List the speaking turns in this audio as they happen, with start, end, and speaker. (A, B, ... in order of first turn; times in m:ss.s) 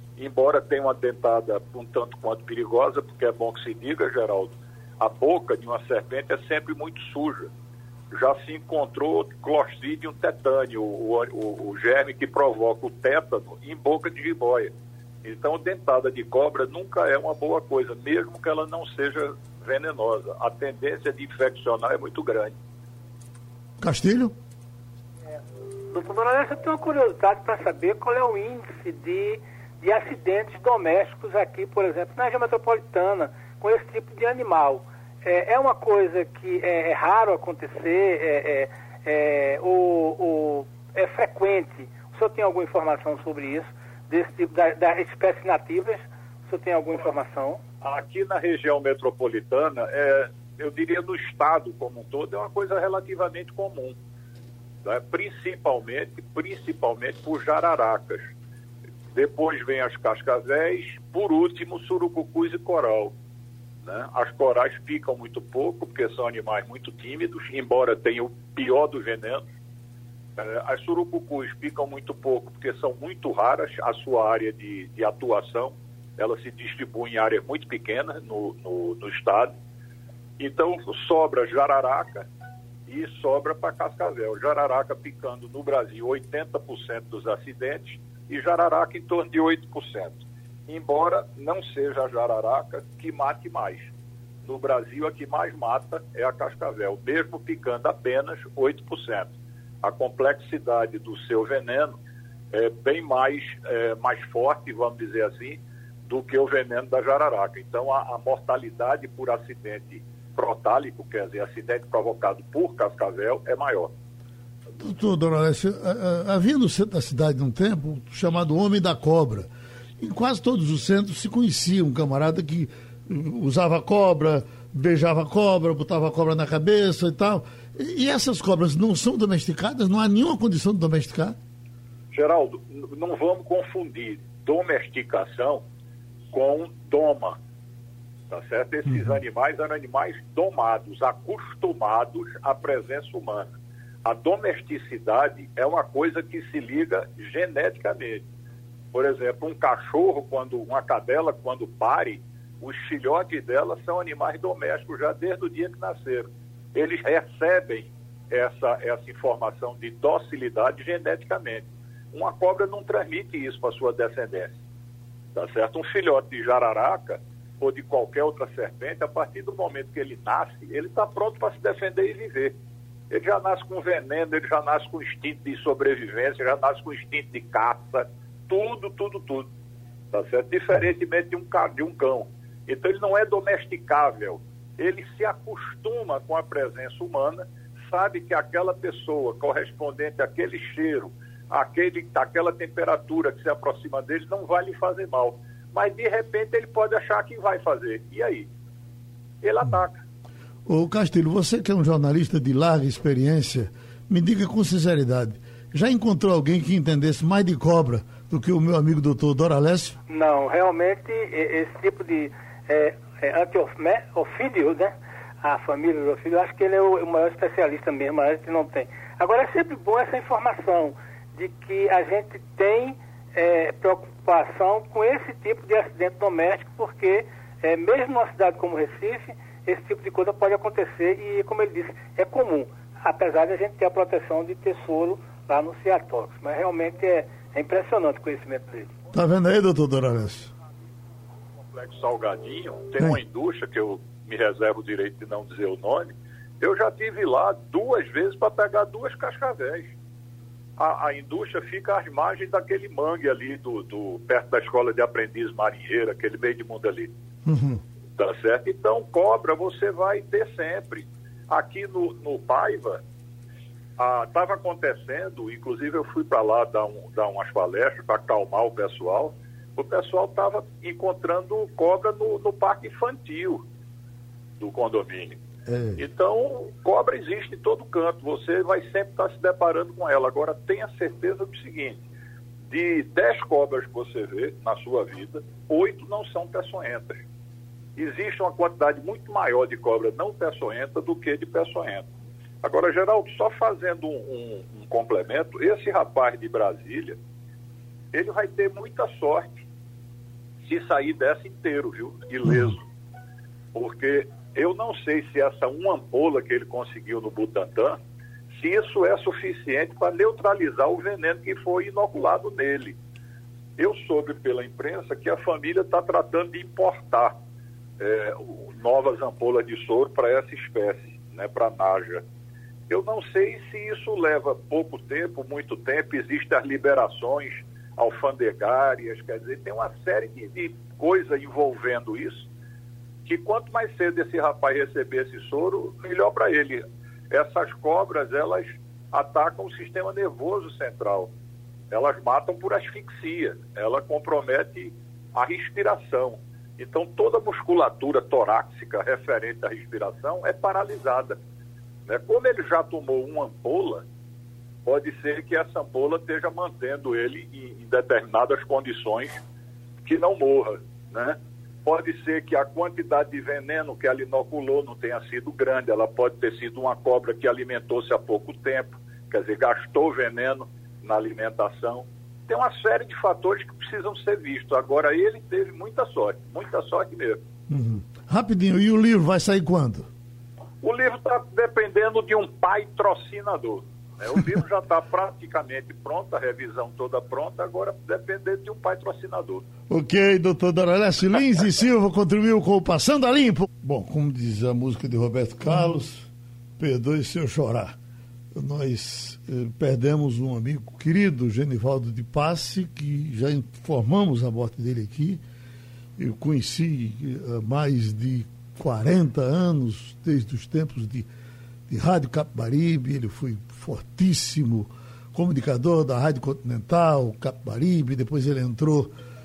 0:00.2-0:07.5 A
0:08.1-0:14.7 A
0:15.2-0:22.5 A
0:23.8-0:24.3 B
0:25.9-0:47.6 C
0:47.8-0:54.0 A
0:54.8-0:58.3 A
0:59.1-1:03.1 A
1:03.8-1:09.4 A
1:10.4-1:19.5 A
1:20.4-1:22.2 A
1:22.9-1:33.9 A
1:34.4-1:39.3 A
1:39.8-1:41.9 A
1:42.5-1:53.9 A
1:54.8-2:11.4 B
2:12.1-2:15.6 A
2:16.3-2:17.4 A
2:18.3-2:23.5 A
2:24.0-2:28.2 A
2:28.9-2:44.6 A
2:45.4-2:52.6 A
2:53.1-2:59.5 A
3:00.1-3:18.5 A
3:19.4-3:20.0 A
3:20.7-3:30.0 B
3:30.1-3:58.9 C
3:59.1-4:00.5 B
4:01.7-4:09.9 A
4:10.8-4:17.1 A
4:17.5-4:17.8 B
4:18.2-4:23.0 A
4:24.0-4:33.6 A
4:34.6-4:35.4 A
4:35.7-4:36.0 B
4:36.0-4:42.0 A
4:42.7-4:47.2 A
4:48.0-4:52.1 A
4:52.6-4:57.2 A
4:58.1-4:59.6 A
5:00.6-5:02.8 A
5:03.7-5:08.0 A
5:08.6-5:13.0 A
5:13.8-5:17.4 A
5:18.0-5:22.2 A
5:22.9-5:32.5 A
5:33.3-5:41.3 A
5:41.9-5:51.4 A
5:52.1-5:54.0 A
5:54.8-5:59.4 A
6:00.0-6:17.4 A
6:17.7-6:20.1 B
6:20.8-6:29.7 A
6:29.9-6:36.3 B
6:36.8-6:38.0 B
6:38.5-6:45.4 B
6:46.2-6:51.3 B
6:51.9-6:59.1 B